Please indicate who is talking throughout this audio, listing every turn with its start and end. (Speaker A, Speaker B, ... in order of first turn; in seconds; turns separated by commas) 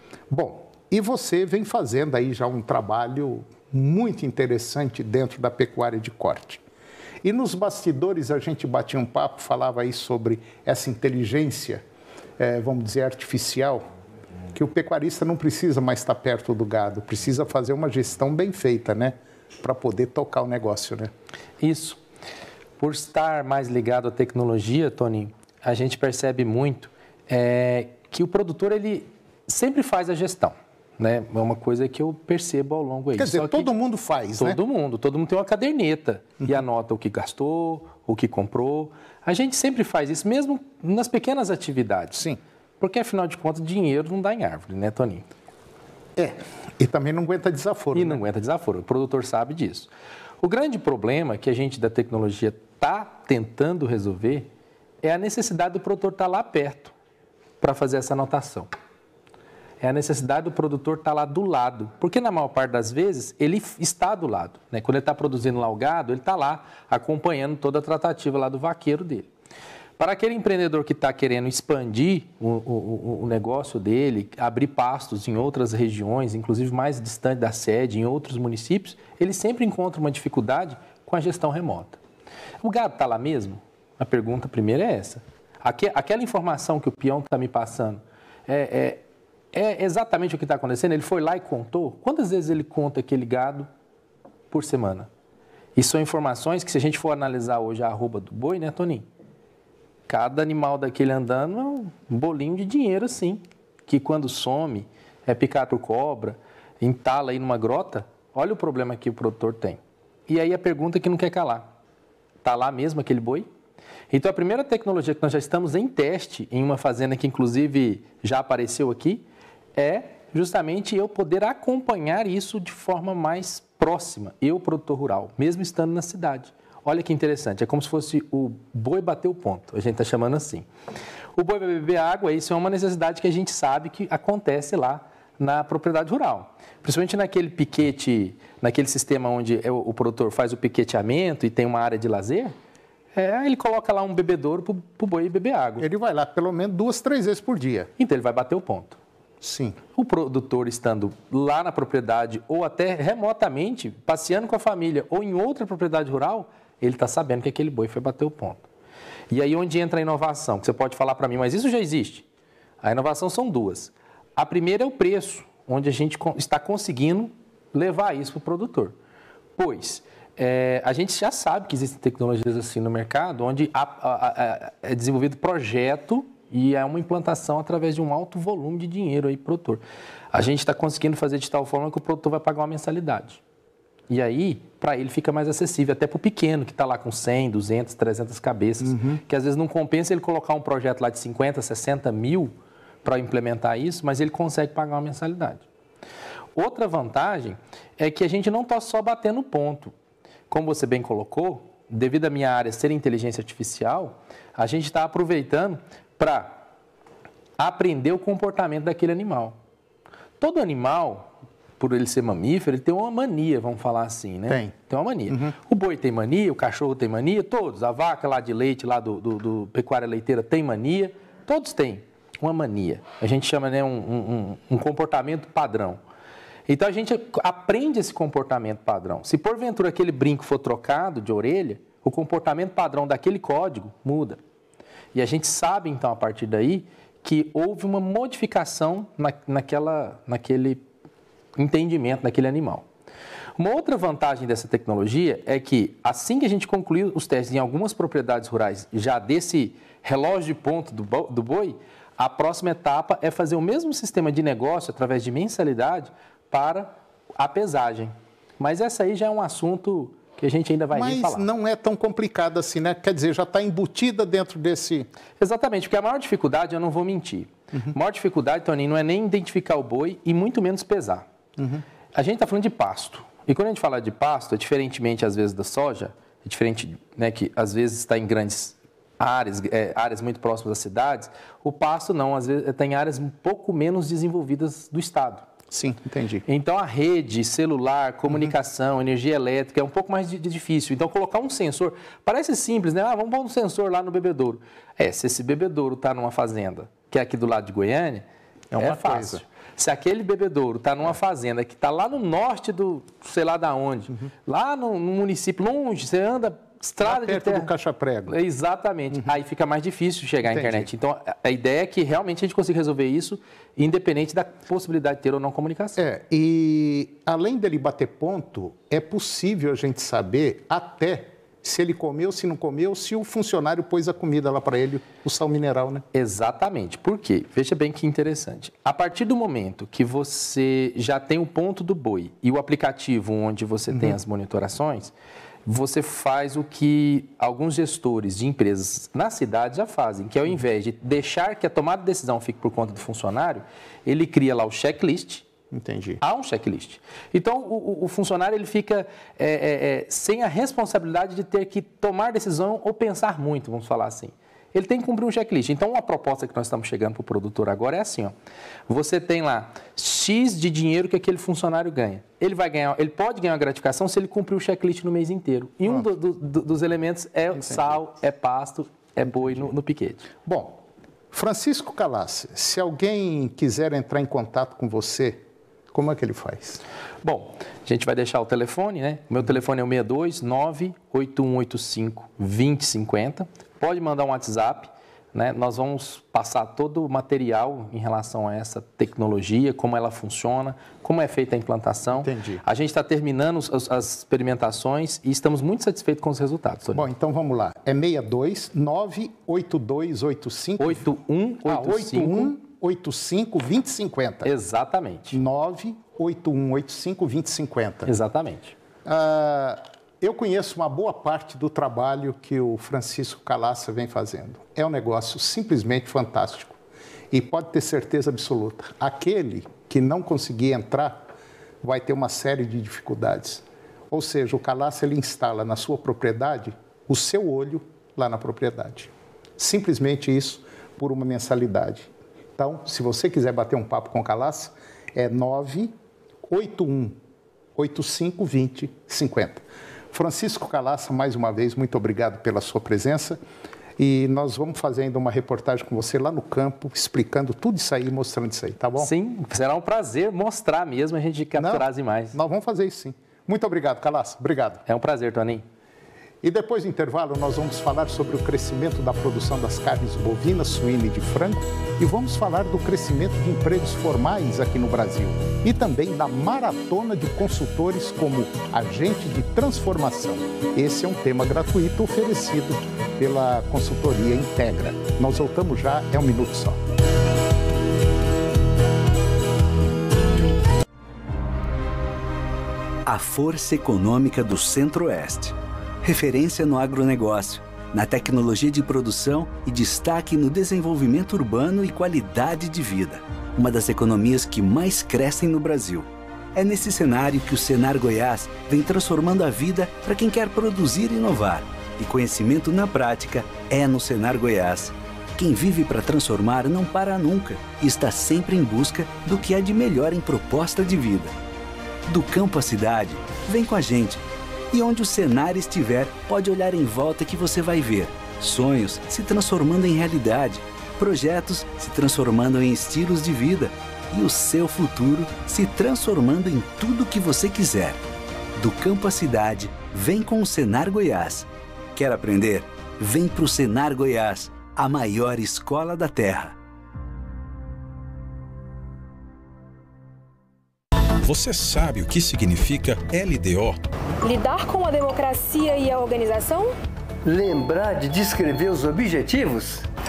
Speaker A: 0.3-6.6, Speaker A: 7.2-11.8, Speaker A: 12.4-13.8, Speaker A: 14.5-21.1, Speaker B: 21.6-22.0, Speaker B: 22.8-33.7, Speaker A: 33.2-34.6, Speaker B: 34.4-42.2, Speaker A: 42.1-42.4, Speaker B: 42.8-45.2, Speaker A: 46.2-48.2, Speaker B: 47.9-49.9, Speaker B: 50.4-54.5, Speaker B: 55.0-56.9, Speaker B: 57.6-58.7, Speaker B: 59.8-69.3, Speaker B: 70.0-82.0, Speaker B: 82.6-89.0, Speaker B: 89.5-93.7, Speaker B: 94.5-95.1, Speaker B: 95.8-99.0, Speaker B: 100.1-111.7, Speaker B: 112.4-113.5, Speaker B: 114.1-119.2, Speaker B: 119.8-130.7, Speaker B: 131.3-142.5, Speaker B: 143.1-145.8, Speaker A: 145.8-147.9, Speaker B: 148.0-149.0, Speaker A: 149.4-149.8, Speaker B: 149.9-158.6, Speaker B: 159.3-162.2, Speaker B: 162.8-168.9, Speaker B: 169.6-183.4, Speaker B: 184.1-195.6, Speaker A: 188.8-189.2, Speaker B: 196.5-199.9, Speaker B: 200.5-206.6, Speaker B: 207.6-209.6, Speaker B: 210.4-226.0, Speaker A: 214.5-214.7, Speaker A: 215.3-215.5, Speaker B: 226.7-234.4, Speaker B: 235.1-240.8, Speaker B: 241.6-242.8, Speaker B: 243.6-261.4, Speaker A: 260.9-265.1, Speaker B: 265.4-271.2, Speaker B: 272.1-285.4, Speaker A: 285.7-286.4, Speaker B: 286.5-298.2, Speaker A: 298.7-299.4, Speaker B: 298.8-307.7, Speaker A: 307.0-308.4, Speaker B: 308.3-316.0, Speaker A: 310.4-310.9, Speaker A: 316.0-326.0, Speaker B: 326.1-335.1, Speaker B: 335.6-345.4, Speaker A: 345.7-346.2, Speaker B: 346.2-358.3, Speaker B: 358.9-370.3, Speaker A: 367.6-367.9, Speaker A: 370.4-370.8, Speaker A: 371.3-376.8, Speaker B: 377.2-397.1, Speaker A: 392.2-392.6, Speaker A: 396.9-401.1, Speaker B: 400.8-402.5, Speaker A: 401.6-404.5, Speaker B: 404.4-405.4, Speaker A: 405.3-408.1, Speaker B: 408.1-408.7, Speaker A: 409.1-416.8, Speaker A: 417.3-421.2, Speaker A: 421.8-435.9, Speaker A: 436.5-437.1, Speaker A: 437.8-443.4, Speaker A: 444.0-449.1, Speaker B: 449.0-452.4, Speaker A: 451.6-454.8, Speaker B: 454.9-455.6, Speaker A: 456.4-476.8, Speaker C: 483.1-511.4, Speaker C: 512.1-528.0, Speaker C: 528.5-536.6, Speaker D: 541.2-543.8, Speaker E: 544.2-546.7, Speaker F: 547.2-549.8